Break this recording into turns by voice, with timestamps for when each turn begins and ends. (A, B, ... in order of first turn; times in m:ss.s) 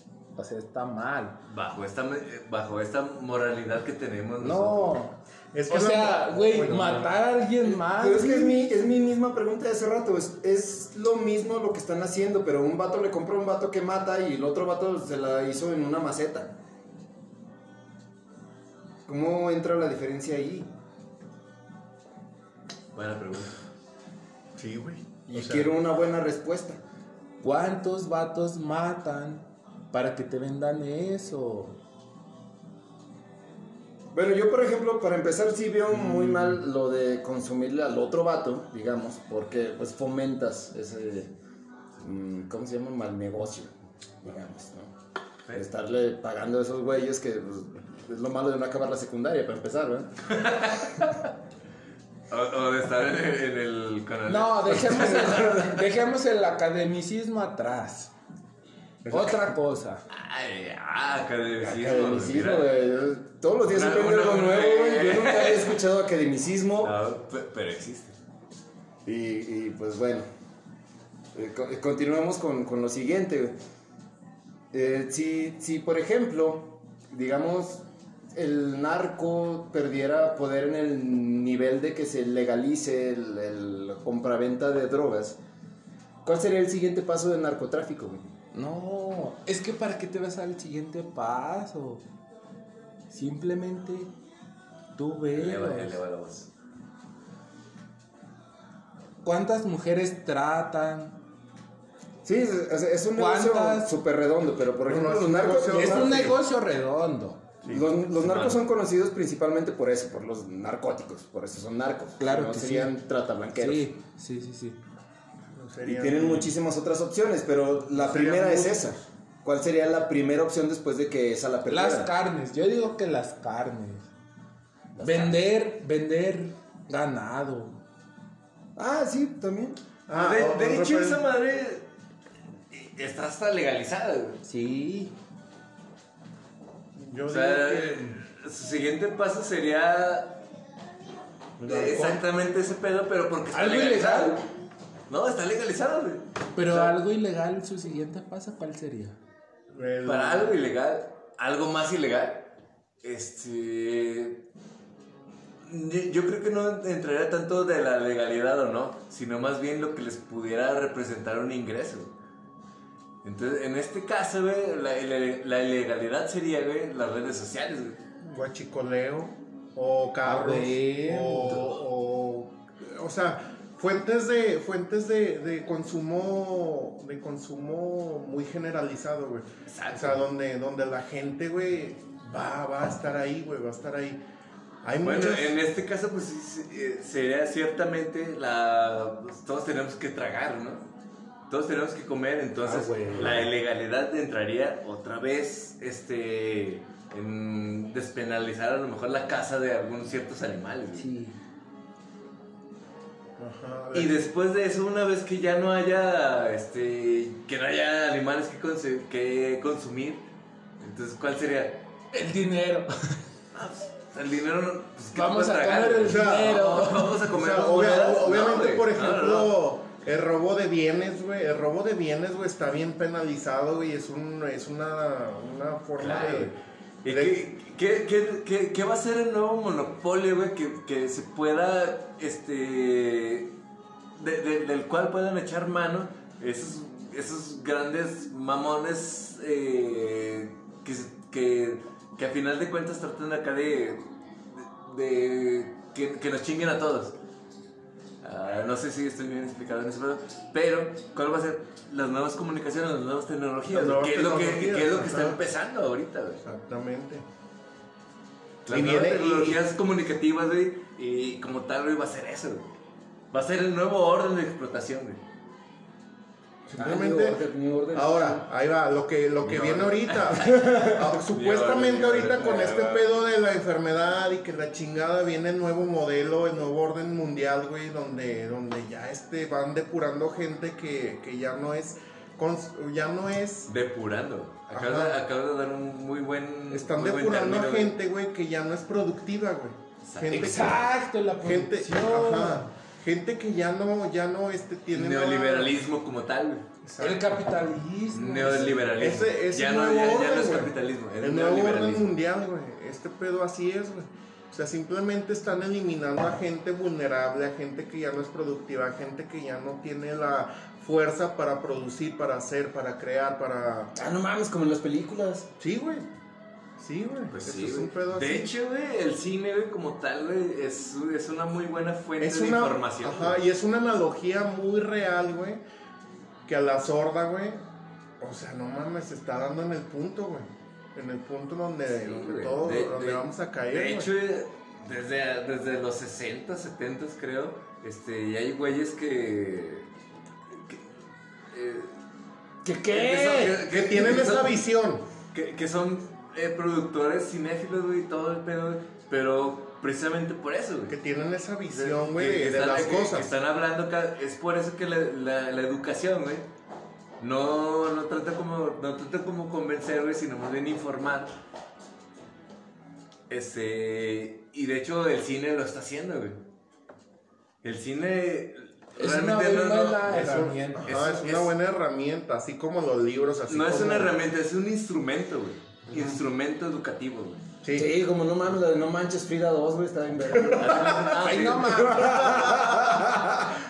0:00.4-0:01.4 A
0:01.5-0:05.0 B
0:04.4-0:05.1 A
0:05.5-0:07.1 C
0:05.7-0:08.6 A
0:07.6-0:16.5 D
0:19.0-0:20.7 D
0:22.9-0:23.5 B
0:24.6-0:25.7 C
0:25.3-0:26.8 D
0:27.4-0:31.8 A
0:34.1-0:41.3 D
0:42.0-0:44.9 D
0:45.5-0:50.1 D
0:50.3-0:51.3 B
0:52.3-0:55.9 B
0:54.3-0:58.1 A
0:59.0-0:59.4 D
0:59.1-1:00.0 A
1:00.1-1:02.7 B
1:01.6-1:06.9 D
1:03.7-1:05.8 B
1:06.8-1:08.1 B
1:09.0-1:10.3 D
1:11.3-1:13.5 D
1:14.7-1:17.8 D
1:18.3-1:25.4 D
1:26.2-1:28.2 D
1:28.5-1:32.0 A
1:33.1-1:34.1 A
1:35.0-1:36.0 A
1:35.3-1:36.5 B
1:39.2-1:41.2 A
1:42.2-1:46.4 D
1:43.1-1:43.9 A
1:44.8-1:46.4 C
1:45.7-1:47.4 A
1:47.6-1:47.9 C
1:47.7-1:53.9 D
1:48.1-1:48.6 B
1:52.2-1:53.0 A
1:53.6-1:54.8 A
1:55.5-1:56.5 C
1:55.8-2:02.1 D
1:57.9-1:59.0 C
2:01.7-2:04.1 A
2:05.0-2:05.4 D
2:05.0-2:07.8 A
2:08.8-2:09.8 D
2:10.1-2:11.2 C
2:10.1-2:11.9 B
2:12.7-2:14.4 B
2:14.4-2:15.1 A
2:17.0-2:18.2 C
2:17.3-2:20.4 B
2:21.6-2:22.2 C
2:21.6-2:24.4 B
2:23.5-2:24.4 A
2:25.1-2:26.9 B
2:26.6-2:29.2 A
2:29.7-2:30.5 C
2:30.0-2:34.5 B
2:35.6-2:42.1 B
2:43.2-2:48.0 B
2:48.2-3:04.2 C
2:50.2-2:51.7 A
2:59.7-3:00.2 B
3:04.8-3:05.6 C
3:05.0-3:10.9 B
3:11.5-3:21.1 B
3:12.6-3:13.5 A
3:21.0-3:21.4 A
3:23.4-3:24.2 C
3:23.9-3:30.3 B
3:30.8-3:31.8 B
3:32.1-3:33.2 A
3:33.5-3:39.5 B
3:35.1-3:37.2 A
3:36.1-3:36.6 C
3:37.2-3:46.5 C
3:46.0-3:53.5 B
3:47.1-3:47.4 C
3:54.2-4:04.0 B
4:04.6-4:07.2 B
4:08.2-4:16.4 B
4:13.7-4:15.4 C
4:16.4-4:17.2 C
4:18.6-4:22.7 B
4:18.7-4:19.6 C
4:23.3-4:25.2 B
4:26.7-4:27.4 C
4:26.8-4:28.4 D
4:27.9-4:43.7 C
4:29.4-4:33.1 B
4:43.7-4:48.0 B
4:44.7-4:45.2 C
4:46.7-4:50.9 C
4:50.0-4:50.8 B
4:50.3-4:52.7 A
4:51.4-4:55.8 C
4:54.9-4:56.6 B
4:56.8-4:57.4 C
4:57.0-4:58.9 A
4:58.1-5:02.1 B
4:58.9-5:13.9 C
5:13.9-5:15.5 D
5:15.6-5:16.0 C
5:16.8-5:18.5 C
5:17.3-5:23.4 B
5:22.2-5:25.6 C
5:26.5-5:27.6 C
5:28.2-5:34.1 C
5:31.9-5:39.9 B
5:41.5-5:41.9 B
5:42.6-5:43.6 D
5:42.9-5:44.6 B
5:43.6-5:45.0 C
5:45.3-5:51.0 B
5:50.9-5:53.3 C
5:51.7-5:56.5 B
5:57.2-6:01.3 B
6:03.3-6:06.4 B
6:07.6-6:11.5 B
6:09.0-6:10.9 A
6:10.0-6:14.1 C
6:13.5-6:17.4 B
6:15.9-6:16.2 C
6:17.6-6:17.9 C
6:17.7-6:23.2 D
6:20.3-6:22.2 B
6:20.4-6:23.2 C
6:21.2-6:22.4 A